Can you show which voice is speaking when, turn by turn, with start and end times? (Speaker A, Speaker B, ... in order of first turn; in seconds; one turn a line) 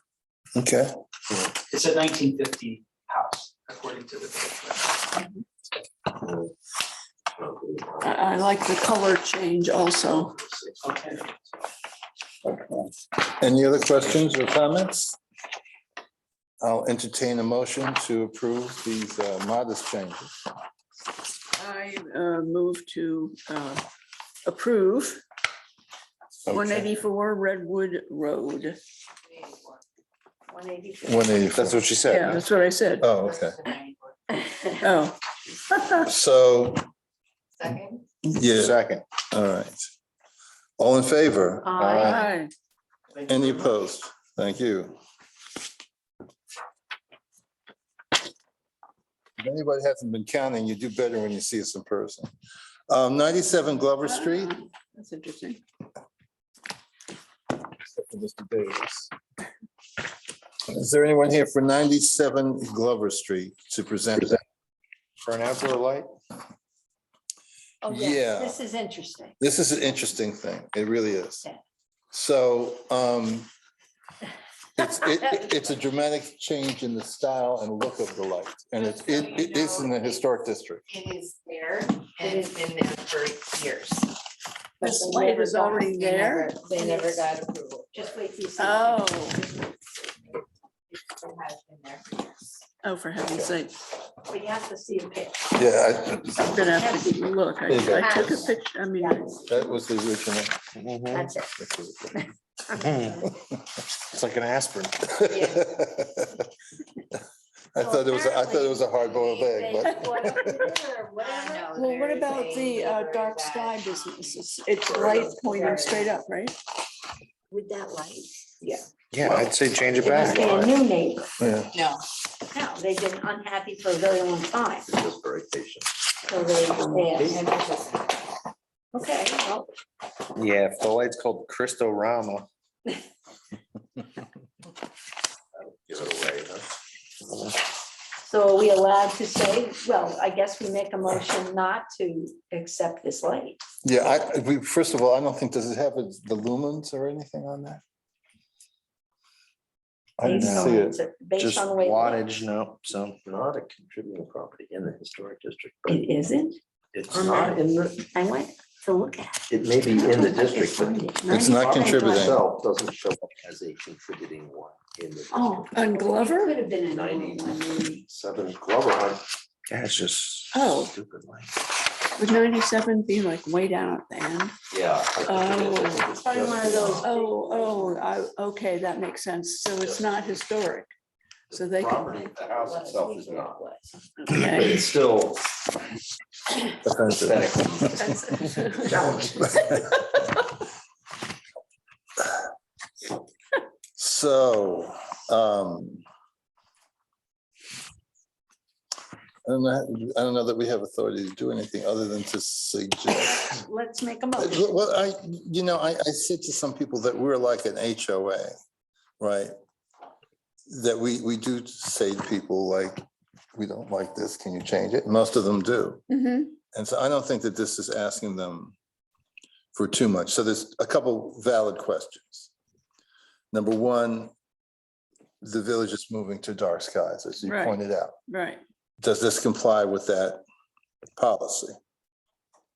Speaker A: 0.6-0.9
Speaker B: 1.7-4.9
Speaker C: 6.2-6.5
Speaker C: 7.4-8.3
Speaker D: 8.0-10.4
Speaker B: 10.8-11.3
Speaker A: 13.4-15.2
Speaker A: 16.6-20.3
Speaker D: 21.6-23.8
Speaker D: 24.5-25.2
Speaker A: 26.5-26.9
Speaker D: 26.5-28.8
Speaker E: 29.3-29.7
Speaker F: 30.5-31.4
Speaker A: 31.0-31.9
Speaker E: 31.6-32.4
Speaker G: 32.1-32.4
Speaker D: 32.1-33.1
Speaker A: 33.0-33.6
Speaker G: 33.2-33.9
Speaker D: 34.8-35.2
Speaker A: 35.9-36.9
Speaker A: 38.2-38.8
Speaker E: 38.6-39.0
Speaker A: 39.3-39.8
Speaker A: 40.8-41.8
Speaker F: 41.6-42.3
Speaker D: 42.0-42.5
Speaker A: 43.3-45.0
Speaker A: 49.4-52.3
Speaker A: 52.9-54.5
Speaker D: 54.0-55.6
Speaker A: 57.7-59.1
Speaker A: 60.7-64.4
Speaker E: 65.2-66.1
Speaker F: 67.8-69.4
Speaker A: 67.9-68.6
Speaker A: 69.4-71.4
Speaker A: 72.1-73.5
Speaker A: 74.8-80.8
Speaker G: 78.8-80.0
Speaker G: 80.9-84.0
Speaker F: 82.2-82.5
Speaker F: 84.8-85.9
Speaker D: 84.8-86.5
Speaker F: 86.6-87.3
Speaker G: 86.9-87.8
Speaker F: 87.9-90.4
Speaker D: 88.6-89.4
Speaker G: 91.1-92.1
Speaker D: 92.8-93.8
Speaker F: 94.3-95.8
Speaker A: 95.5-96.5
Speaker D: 96.3-99.4
Speaker F: 96.5-99.8
Speaker A: 97.7-98.3
Speaker A: 99.5-100.6
Speaker E: 100.8-101.2
Speaker F: 101.1-103.3
Speaker E: 102.9-103.2
Speaker E: 104.1-105.0
Speaker A: 105.1-106.5
Speaker F: 105.3-105.6
Speaker A: 107.7-110.5
Speaker F: 107.8-111.7
Speaker D: 110.3-110.7
Speaker G: 111.3-113.7
Speaker D: 111.7-116.6
Speaker C: 114.9-115.5
Speaker F: 117.5-118.8
Speaker E: 119.1-120.7
Speaker F: 120.0-121.3
Speaker D: 120.1-120.5
Speaker A: 121.4-121.8
Speaker F: 122.5-124.9
Speaker C: 124.9-125.9
Speaker F: 126.3-128.0
Speaker C: 126.7-127.4
Speaker F: 128.9-129.7
Speaker E: 130.4-132.5
Speaker C: 135.6-136.7
Speaker F: 138.2-143.6
Speaker A: 143.8-147.8
Speaker A: 150.2-151.0
Speaker F: 150.2-152.2
Speaker E: 150.3-150.7
Speaker E: 151.4-153.2
Speaker C: 153.2-156.1
Speaker F: 155.9-156.6
Speaker C: 156.9-158.1
Speaker F: 157.1-157.6
Speaker F: 158.1-162.3
Speaker C: 159.5-166.0
Speaker A: 161.3-162.4
Speaker D: 165.3-166.6
Speaker F: 165.9-168.1
Speaker C: 166.9-169.2
Speaker E: 169.7-170.6
Speaker D: 170.5-170.9
Speaker C: 171.0-171.5
Speaker D: 172.2-174.6
Speaker C: 174.7-177.1
Speaker D: 175.2-180.9
Speaker F: 176.2-178.0
Speaker C: 179.8-180.3
Speaker C: 181.5-183.6
Speaker D: 181.5-182.2
Speaker F: 182.1-183.9
Speaker D: 184.2-184.9
Speaker C: 184.3-185.6
Speaker A: 186.8-188.4
Speaker C: 187.2-189.5
Speaker A: 189.4-189.9
Speaker A: 194.0-196.0
Speaker A: 199.4-203.6
Speaker F: 203.2-204.8
Speaker A: 204.4-208.5
Speaker A: 209.2-209.5
Speaker A: 210.7-213.0
Speaker A: 213.6-216.0
Speaker D: 216.1-216.6
Speaker A: 216.7-218.8
Speaker A: 219.8-222.5
Speaker A: 223.5-224.3
Speaker A: 225.4-228.2
Speaker D: 227.4-228.6
Speaker A: 229.0-230.4
Speaker A: 231.2-231.8